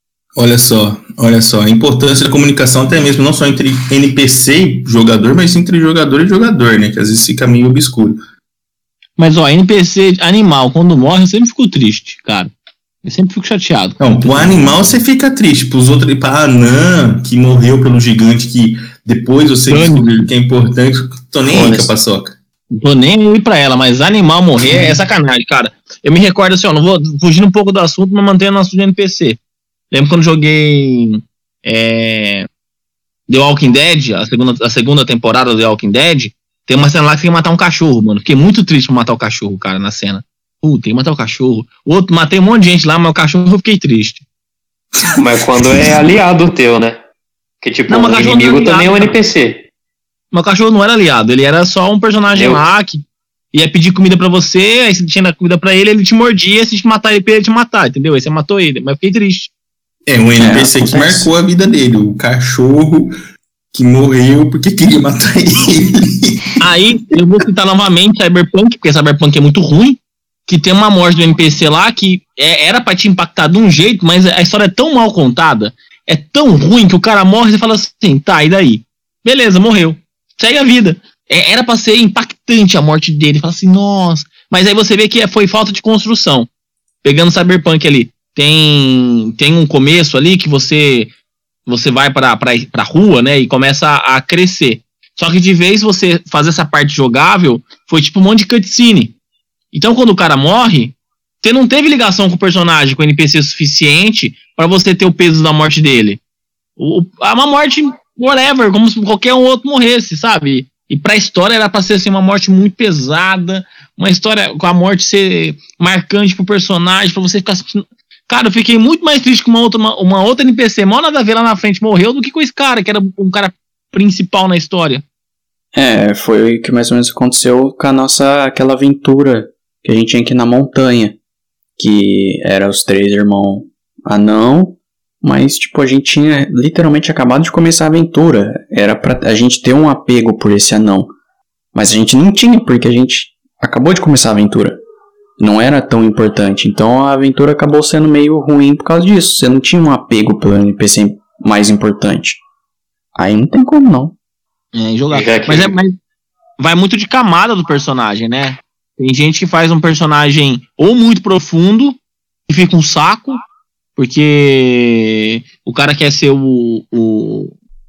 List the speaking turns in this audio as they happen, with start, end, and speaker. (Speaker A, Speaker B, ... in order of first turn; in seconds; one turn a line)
Speaker A: 0.3-8.2
Speaker B: 9.2-12.5
Speaker B: 13.0-14.7
Speaker A: 14.0-22.4
Speaker B: 19.7-20.1
Speaker C: 21.5-21.9
Speaker B: 22.7-29.4
Speaker B: 29.9-32.5
Speaker B: 33.3-44.2
Speaker D: 45.2-47.0
Speaker A: 45.6-45.9
Speaker D: 47.6-49.6
Speaker B: 47.9-49.1
Speaker B: 50.3-59.5
Speaker D: 52.3-52.6
Speaker A: 60.1-63.1
Speaker C: 60.4-61.3
Speaker A: 63.7-66.5
Speaker B: 66.6-86.5
Speaker B: 87.0-91.1
Speaker B: 91.7-99.1
Speaker B: 99.7-106.2
Speaker B: 106.8-125.0
Speaker C: 125.7-131.2
Speaker C: 131.8-141.1
Speaker C: 141.7-144.8
Speaker C: 145.4-152.4
Speaker C: 153.1-154.2
Speaker B: 154.7-155.9
Speaker D: 155.1-155.7
Speaker B: 156.6-163.4
Speaker B: 164.0-167.5